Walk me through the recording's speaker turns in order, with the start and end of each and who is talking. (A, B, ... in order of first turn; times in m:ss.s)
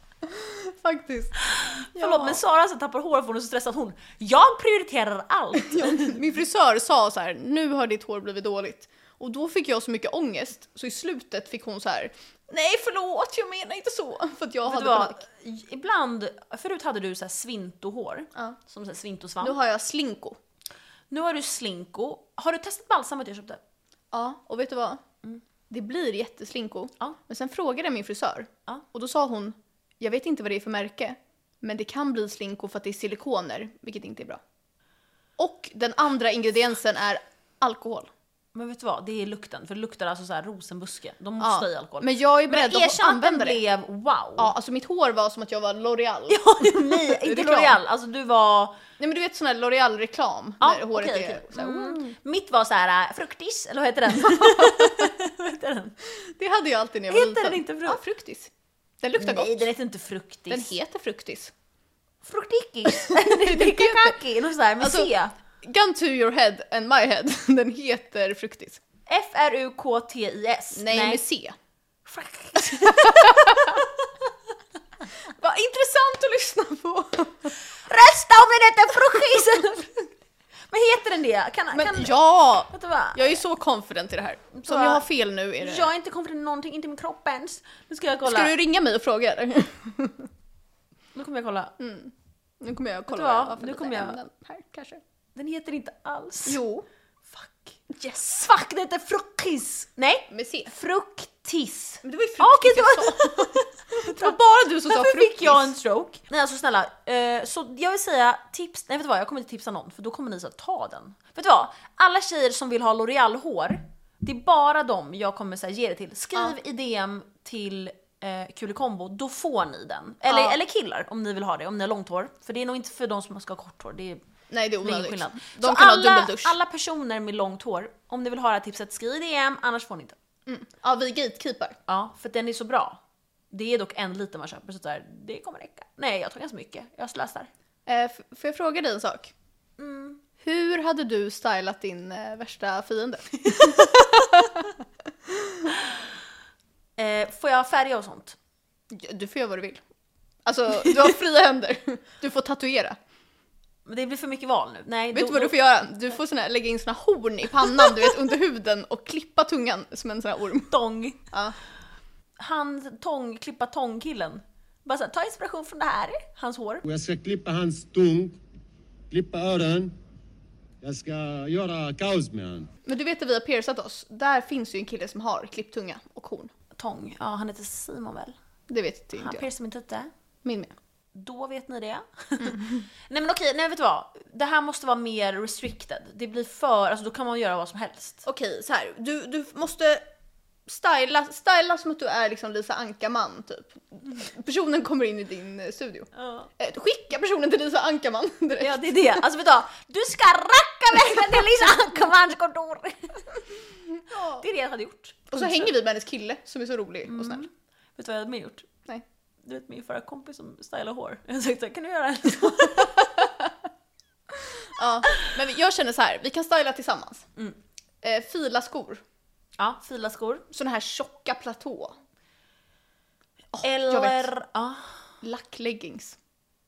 0:00.2-0:02.4 A
0:01.4-0:06.2 B
0:05.6-0:15.2 A
0:14.7-0:19.6 B
0:19.4-0:20.4 A
0:21.1-0:23.6 B
0:24.1-0:25.0 A
0:25.7-0:34.4 A
0:35.4-0:38.1 A
0:38.5-0:44.5 B
0:41.4-0:43.6 A
0:44.4-0:47.8 A
0:46.3-0:48.8 B
0:49.0-0:52.0 A
0:50.6-0:56.0 B
0:54.2-0:55.1 A
0:56.1-0:58.5 A
0:57.1-0:58.0 B
0:59.0-0:59.7 A
0:59.2-1:00.7 B
1:00.5-1:01.5 A
1:02.2-1:05.3 B
1:02.9-1:04.2 A
1:04.8-1:05.1 A
1:05.6-1:08.8 A
1:09.1-1:11.2 B
1:10.8-1:11.6 A
1:12.1-1:14.1 B
1:12.6-1:13.8 A
1:15.2-1:17.5 A
1:17.6-1:20.0 B
1:20.7-1:22.2 B
1:21.7-1:25.9 A
1:22.7-1:23.4 B
1:24.5-1:25.0 B
1:25.6-1:28.5 B
1:28.2-1:30.3 A
1:31.2-1:31.7 B
1:31.8-1:35.0 A
1:33.1-1:34.2 B
1:35.4-1:36.6 B
1:36.5-1:36.9 A
1:37.3-1:44.4 B
1:40.3-1:40.7 A
1:42.0-1:45.7 A
1:44.9-2:04.2 B
2:00.3-2:00.6 A
2:04.5-2:06.6 A
2:04.8-2:10.2 B
2:10.5-2:11.8 A
2:11.9-2:17.5 B
2:17.9-2:19.3 A
2:19.8-2:20.2 B
2:20.4-2:24.7 A
2:23.5-2:24.1 B
2:25.3-2:25.7 A
2:27.0-2:28.4 B
2:28.9-2:29.8 A
2:30.4-2:33.0 A
2:33.9-2:35.6 B
2:35.1-2:40.7 A
2:40.7-2:41.2 B
2:41.3-2:41.6 A
2:42.4-2:46.8 B
2:46.8-2:48.4 C
2:49.1-2:49.9 C
2:50.8-2:52.7 C
2:52.8-2:56.5 A
2:56.8-2:58.4 B
2:58.7-2:59.5 A
2:59.2-3:00.1 B
3:00.4-3:00.7 A
3:01.2-3:08.2 B
3:02.4-3:02.8 A
3:08.2-3:10.0 A
3:10.7-3:18.8 A
3:16.2-3:16.5 B
3:18.6-3:23.4 B
3:24.1-3:24.4 A
3:24.2-3:25.7 B
3:25.3-3:27.5 A
3:27.1-3:28.7 B
3:29.4-3:33.3 B
3:34.3-3:37.3 A
3:38.0-3:39.0 A
3:39.6-3:40.4 B
3:40.5-3:42.0 A
3:43.5-3:44.3 A
3:43.6-3:45.0 B
3:45.2-3:46.2 A